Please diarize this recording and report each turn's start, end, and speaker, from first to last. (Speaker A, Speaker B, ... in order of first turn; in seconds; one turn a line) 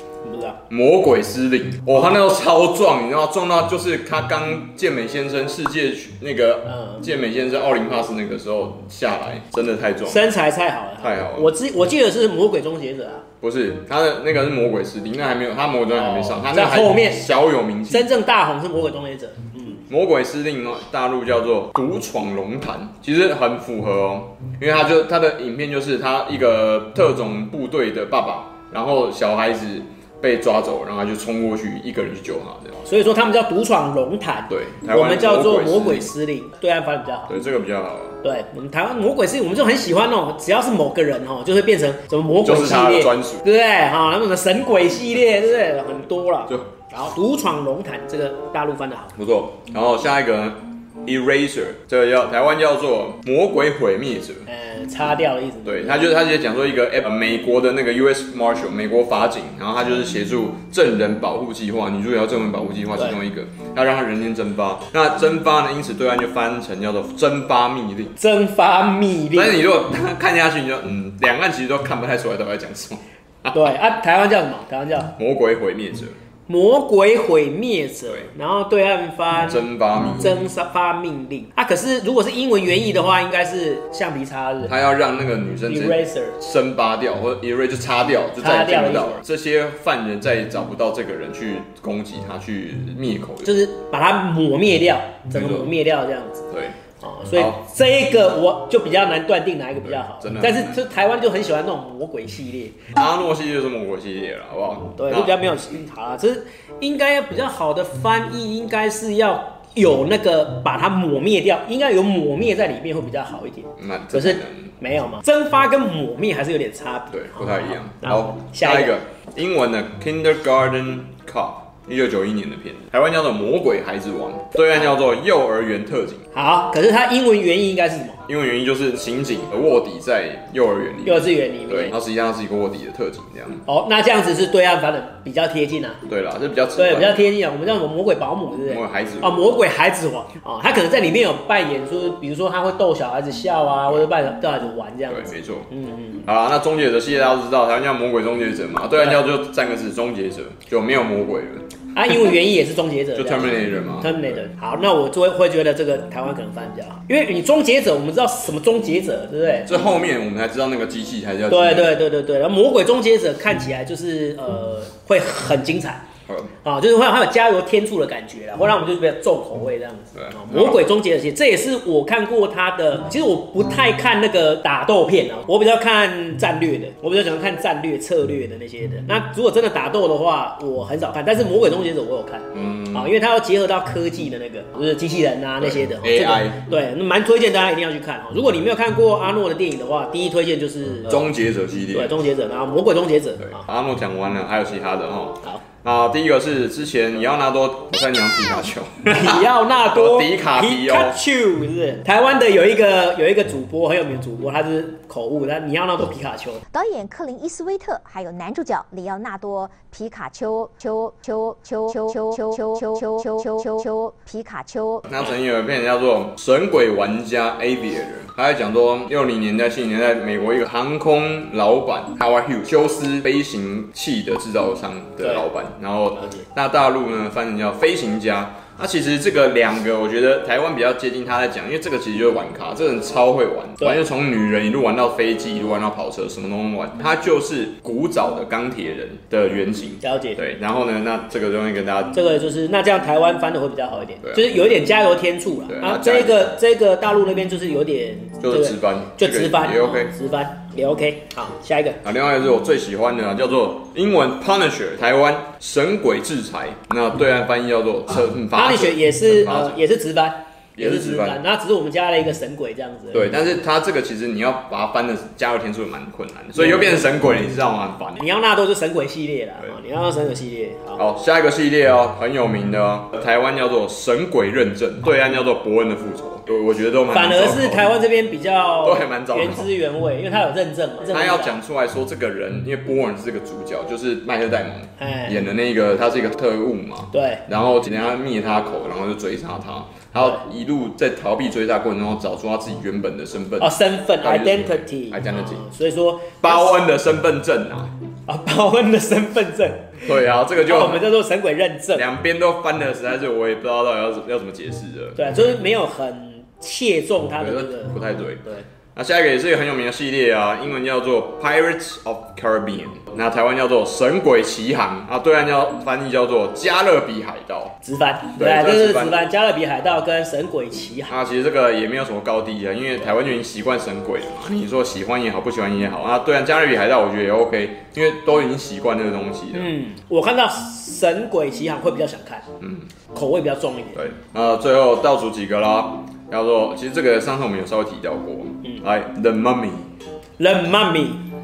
Speaker A: 0.2-0.6
Speaker B: 0.7-10.2
Speaker A: 6.7-7.0
Speaker A: 10.1-13.2
Speaker B: 11.0-11.5
Speaker B: 13.4-18.1
Speaker A: 15.9-17.4
Speaker A: 17.9-19.8
Speaker B: 19.9-32.8
Speaker A: 32.8-37.3
Speaker B: 34.5-36.1
Speaker B: 37.3-38.2
Speaker A: 38.2-49.1
Speaker B: 42.4-43.5
Speaker B: 49.1-54.5
Speaker A: 54.5-56.0
Speaker B: 55.6-68.2
Speaker A: 68.2-69.6
Speaker B: 69.3-73.7
Speaker A: 73.5-75.1
Speaker B: 75.2-76.2
Speaker A: 76.5-79.7
Speaker B: 79.5-80.4
Speaker A: 80.2-84.7
Speaker B: 84.7-93.5
Speaker A: 85.7-86.3
Speaker A: 88.4-89.2
Speaker A: 93.4-96.5
Speaker B: 95.3-95.7
Speaker B: 96.5-96.8
Speaker A: 97.0-102.9
Speaker B: 97.3-97.6
Speaker B: 99.8-100.8
Speaker B: 102.9-105.3
Speaker A: 105.0-119.0
Speaker B: 113.8-114.7
Speaker B: 117.1-126.2
Speaker A: 126.3-128.2
Speaker B: 128.2-133.6
Speaker A: 131.0-131.9
Speaker A: 133.7-136.0
Speaker B: 136.1-137.3
Speaker A: 136.8-146.2
Speaker B: 138.7-139.5
Speaker B: 145.1-145.7
Speaker B: 146.2-151.7
Speaker A: 151.9-159.7
Speaker B: 153.2-154.3
Speaker B: 159.7-162.0
Speaker A: 161.5-166.0
Speaker B: 166.3-166.5
Speaker A: 166.6-191.2
Speaker B: 170.1-170.8
Speaker B: 182.5-183.1
Speaker B: 185.6-186.6
Speaker B: 191.1-192.2
Speaker A: 191.9-193.6
Speaker B: 193.4-201.2
Speaker A: 199.1-206.6
Speaker C: 206.7-215.0
Speaker B: 215.1-242.2
Speaker A: 225.2-225.4
Speaker A: 226.2-226.5
Speaker A: 240.0-240.4
Speaker A: 242.1-252.0
Speaker B: 244.2-244.6
Speaker B: 245.7-246.5
Speaker B: 248.4-250.1
Speaker B: 252.0-259.8
Speaker A: 258.5-263.4
Speaker B: 260.8-261.4
Speaker B: 263.1-268.2
Speaker A: 266.5-267.1
Speaker A: 268.2-271.0
Speaker B: 270.9-277.9
Speaker A: 277.1-281.6
Speaker B: 278.8-279.7
Speaker B: 281.0-295.6
Speaker A: 285.0-285.5
Speaker A: 287.1-287.4
Speaker A: 293.6-296.7
Speaker B: 296.4-297.9
Speaker A: 298.3-302.1
Speaker B: 300.0-301.1
Speaker B: 301.9-305.6
Speaker A: 305.2-308.6
Speaker B: 307.4-317.8
Speaker A: 317.8-321.1
Speaker B: 318.4-319.2
Speaker B: 321.1-329.7
Speaker A: 329.5-332.4
Speaker B: 332.6-332.9
Speaker A: 333.1-334.0
Speaker B: 333.9-339.9
Speaker A: 340.4-341.2